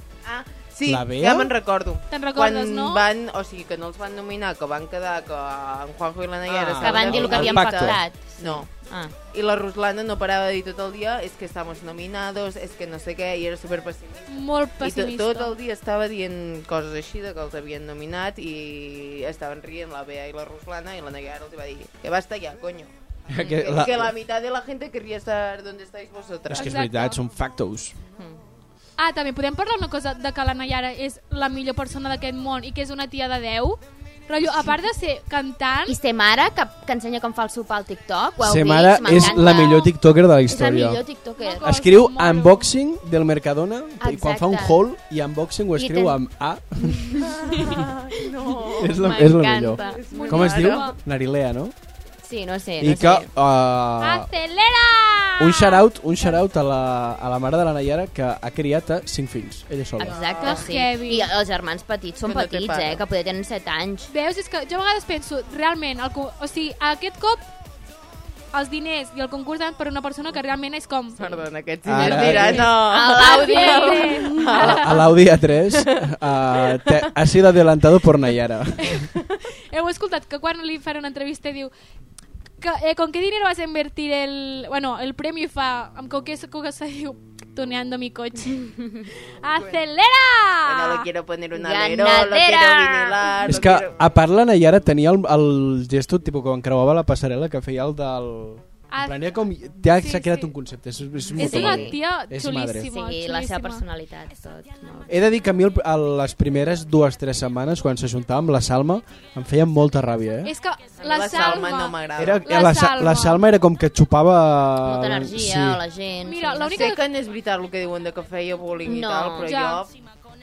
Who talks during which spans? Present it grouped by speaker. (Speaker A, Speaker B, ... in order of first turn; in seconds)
Speaker A: 0.2-8.7, 9.3-26.8, 47.5-49.2, 49.8-50.9, 60.0-60.7, 62.2-63.0, 71.2-75.1, 75.7-76.0, 76.6-77.1, 90.6-94.0, 111.0-112.5, 116.7-119.9
Speaker B: 0.8-1.5, 6.5-8.0, 23.3-24.1, 26.5-27.9, 38.4-41.0, 41.6-47.3, 48.8-51.7, 52.8-54.3, 55.4-60.2, 71.8-72.7, 74.5-79.1, 93.4-102.9, 105.1-110.5, 112.2-115.8
Speaker C: 2.1-3.0, 14.3-15.6, 26.5-27.2, 29.0-36.0, 41.4-42.7, 50.1-50.7, 54.0-55.8, 60.4-61.3, 64.1-67.5, 68.5-71.4, 73.0-75.0, 79.7-81.7, 82.6-91.1, 98.9-100.5, 101.4-103.8, 110.4-113.4, 116.2-117.0, 119.4-119.8
Speaker D: 6.8-9.1, 35.9-39.9, 40.5-41.7, 44.0-44.8, 45.7-46.2, 46.9-47.9, 48.8-50.9, 52.2-53.3, 60.0-64.1, 72.0-74.5, 91.5-93.5, 101.3-102.0, 102.9-105.2, 114.8-116.9, 118.8-119.5